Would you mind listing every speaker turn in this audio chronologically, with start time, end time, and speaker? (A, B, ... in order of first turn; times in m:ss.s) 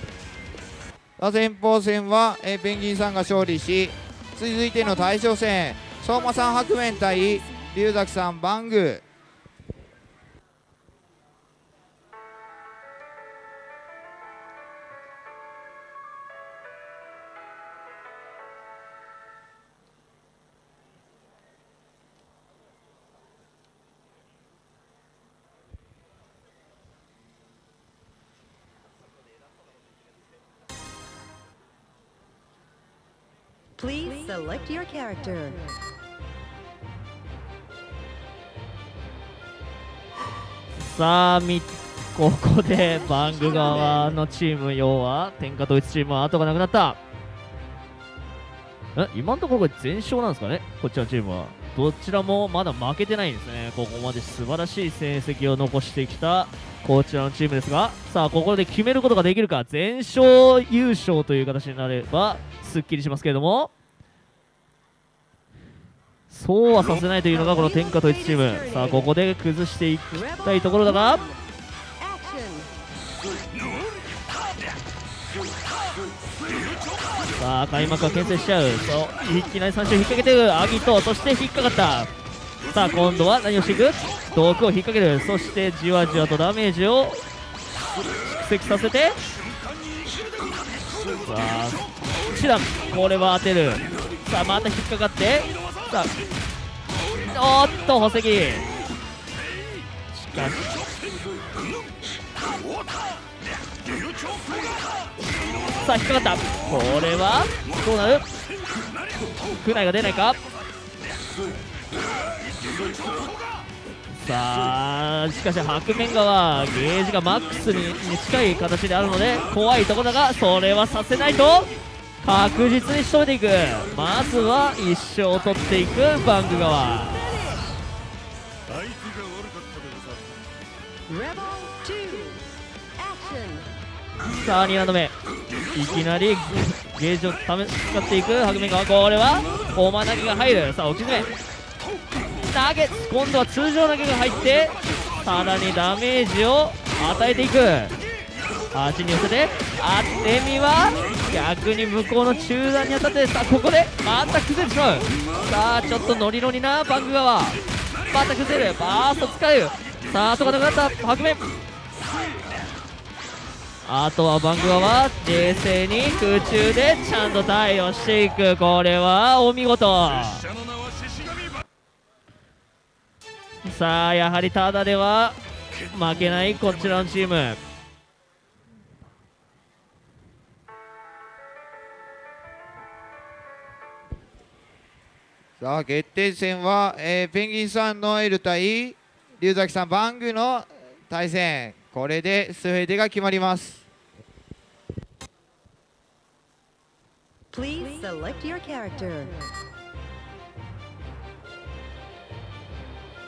0:01.2-0:09.0 A
0:34.0-0:35.6 B
0:40.8-0:47.0 C
0:49.0-1:03.7 C
1:06.3-1:11.3 C
1:12.1-1:12.6 B
1:17.4-1:22.1 C
1:22.7-1:27.2 C
1:28.2-1:29.2 C
1:31.2-1:36.1 C
1:37.2-1:38.7 C
1:40.1-1:40.7 C
1:45.8-1:48.2 C
1:49.6-1:50.4 C
1:54.1-2:07.3 C
2:11.1-2:12.4 B
2:13.1-2:13.6 B
2:14.3-2:15.1 C
2:15.7-2:21.3 C
2:22.5-2:28.0 C
2:28.7-2:37.6 C
2:38.1-2:41.4 C
2:43.8-2:50.5 C
2:53.6-2:57.6 C
3:05.6-3:13.8 A
3:17.9-3:19.3 B